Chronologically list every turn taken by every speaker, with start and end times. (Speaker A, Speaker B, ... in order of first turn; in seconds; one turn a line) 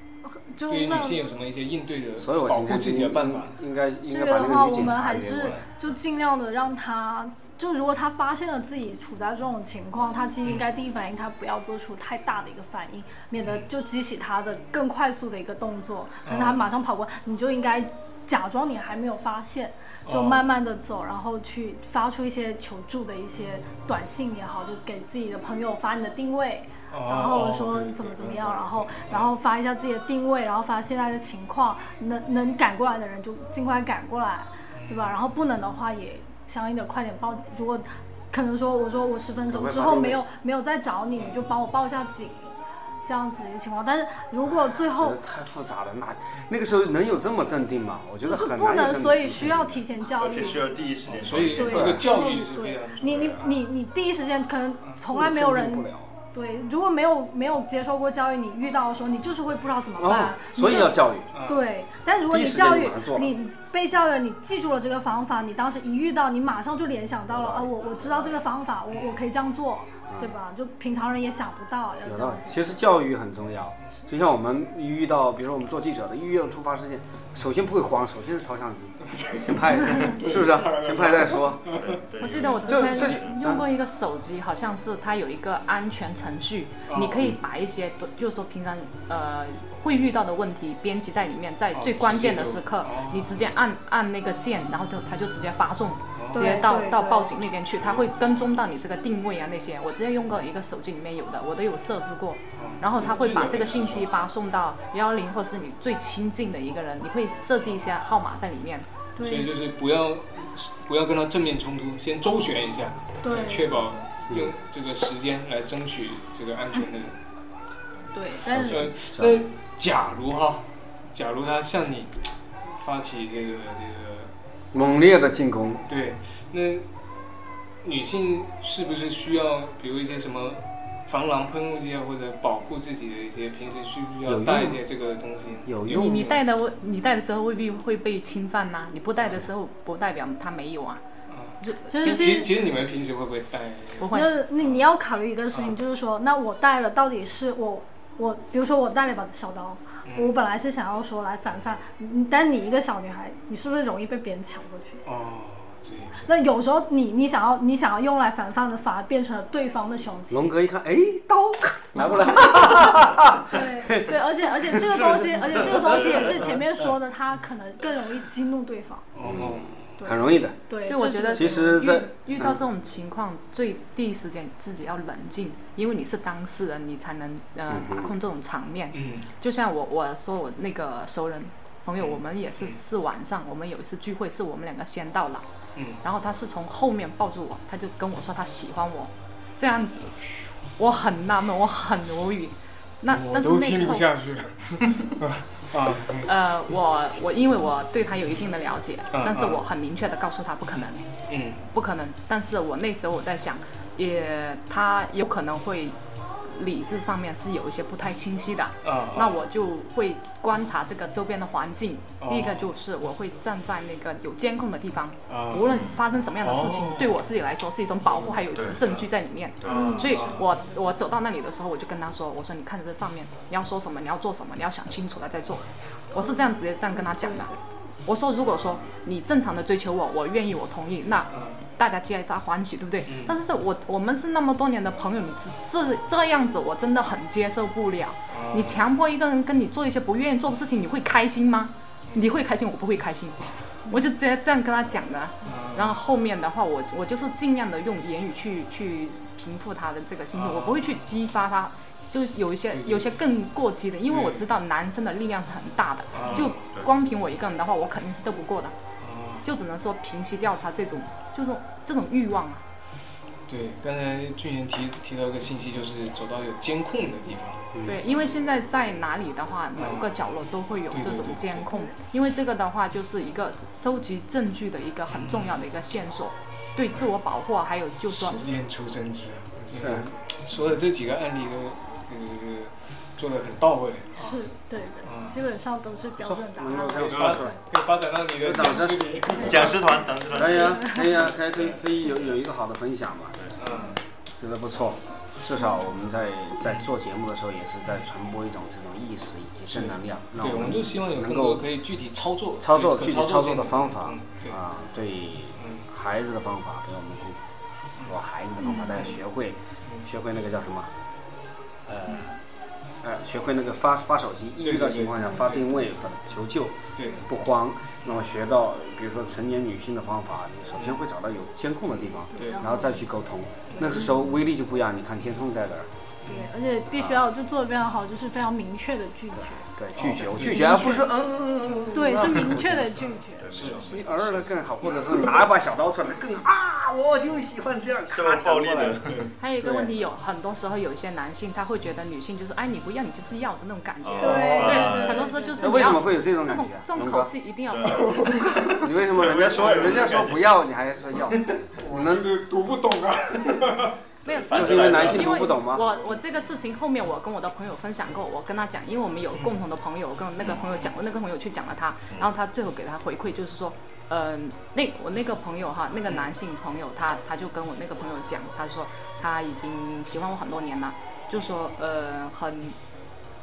Speaker A: 0.2-1.2
Speaker B: 0.7-3.5
Speaker C: 2.2-5.6
Speaker A: 4.1-45.2
Speaker B: 5.3-5.6
Speaker B: 13.4-13.6
Speaker B: 16.2-16.6
Speaker B: 20.1-20.4
Speaker B: 26.9-29.3
Speaker B: 34.7-35.1
Speaker C: 39.4-40.2
Speaker C: 44.9-49.8
Speaker A: 48.2-50.8
Speaker D: 50.1-52.0
Speaker B: 51.1-53.6
Speaker A: 51.4-72.8
Speaker C: 51.7-52.0
Speaker C: 55.1-56.1
Speaker C: 60.0-61.3
Speaker B: 61.3-61.6
Speaker C: 62.3-63.3
Speaker C: 67.3-68.4
Speaker C: 70.1-70.3
Speaker C: 72.0-81.8
Speaker B: 79.1-82.0
Speaker D: 81.7-83.3
Speaker E: 82.2-108.9
Speaker C: 82.6-83.6
Speaker B: 86.9-87.3
Speaker B: 91.7-93.4
Speaker B: 96.1-96.7
Speaker A: 96.3-97.3
Speaker B: 102.5-104.1
Speaker A: 109.2-109.5
Speaker B: 109.2-117.2
Speaker A: 113.2-114.0
Speaker E: 118.1-118.8
Speaker C: 118.4-119.4
Speaker B: 118.4-124.3
Speaker C: 124.7-125.8
Speaker B: 125.8-126.9
Speaker B: 127.8-136.4
Speaker C: 134.2-134.8
Speaker C: 135.6-136.0
Speaker E: 135.9-141.0
Speaker B: 141.3-144.8
Speaker E: 141.6-142.5
Speaker A: 141.9-142.5
Speaker E: 144.0-144.3
Speaker A: 144.1-155.0
Speaker B: 150.1-150.3
Speaker B: 155.0-156.3
Speaker A: 156.2-160.5
Speaker C: 160.3-166.4
Speaker A: 163.5-169.1
Speaker D: 166.0-166.2
Speaker B: 169.1-170.0
Speaker C: 169.2-170.6
Speaker A: 170.7-172.0
Speaker E: 170.8-185.4
Speaker C: 171.1-172.6
Speaker C: 177.7-178.1
Speaker B: 178.9-179.3
Speaker B: 182.0-182.8
Speaker B: 185.8-186.0
Speaker E: 186.0-190.1
Speaker E: 190.7-194.1
Speaker B: 193.1-196.3
Speaker E: 196.2-201.0
Speaker B: 199.1-199.6
Speaker B: 201.3-201.7
Speaker E: 201.7-227.5
Speaker B: 208.8-209.5
Speaker B: 212.2-212.7
Speaker B: 215.3-217.2
Speaker D: 215.7-216.0
Speaker B: 218.1-219.1
Speaker D: 218.5-218.8
Speaker D: 219.6-220.0
Speaker B: 219.6-220.5
Speaker A: 219.7-220.8
Speaker A: 226.2-227.6
Speaker E: 228.0-258.8
Speaker B: 231.3-231.6
Speaker B: 233.1-233.4
Speaker B: 238.3-238.8
Speaker B: 242.1-242.4
Speaker B: 245.4-246.0
Speaker B: 250.3-251.0
Speaker B: 252.7-253.1
Speaker B: 254.1-254.4
Speaker B: 256.1-256.7
Speaker D: 256.6-256.9
Speaker B: 259.0-259.5
Speaker E: 259.4-262.6
Speaker B: 263.5-267.7
Speaker E: 267.8-278.5
Speaker B: 269.7-270.2
Speaker B: 270.9-271.7
Speaker B: 275.1-275.6
Speaker B: 278.1-284.4
Speaker C: 279.8-280.1
Speaker A: 284.1-287.2
Speaker B: 285.0-285.4
Speaker C: 286.2-287.6
Speaker B: 287.0-289.9
Speaker C: 288.4-289.6
Speaker D: 289.3-291.1
Speaker C: 290.3-293.4
Speaker B: 293.6-293.9
Speaker A: 293.7-294.0
Speaker C: 294.4-301.6
Speaker B: 299.7-304.6
Speaker C: 302.6-307.4
Speaker B: 305.6-305.9
Speaker C: 307.9-310.9
Speaker B: 308.8-309.2
Speaker C: 311.9-312.3
Speaker C: 313.0-325.9
Speaker B: 314.6-315.7
Speaker B: 316.9-317.3
Speaker A: 322.3-323.0
Speaker B: 322.3-322.7
Speaker B: 323.7-324.0
Speaker B: 326.2-326.5
Speaker A: 326.2-329.7
Speaker C: 326.9-327.2
Speaker C: 329.6-333.0
Speaker B: 330.0-331.0
Speaker A: 330.4-331.1
Speaker B: 331.6-332.0
Speaker A: 331.9-333.5
Speaker B: 333.0-334.2
Speaker D: 333.4-334.5
Speaker C: 333.9-339.9
Speaker D: 338.1-339.3
Speaker E: 339.4-348.8
Speaker D: 344.0-345.5
Speaker A: 344.2-345.9
Speaker B: 344.2-345.2
Speaker C: 345.6-347.3
Speaker D: 347.7-348.1
Speaker B: 347.9-350.0
Speaker C: 348.8-352.4
Speaker D: 349.1-350.4
Speaker B: 351.8-354.0
Speaker D: 354.2-355.4
Speaker E: 354.2-372.8
Speaker C: 354.5-355.9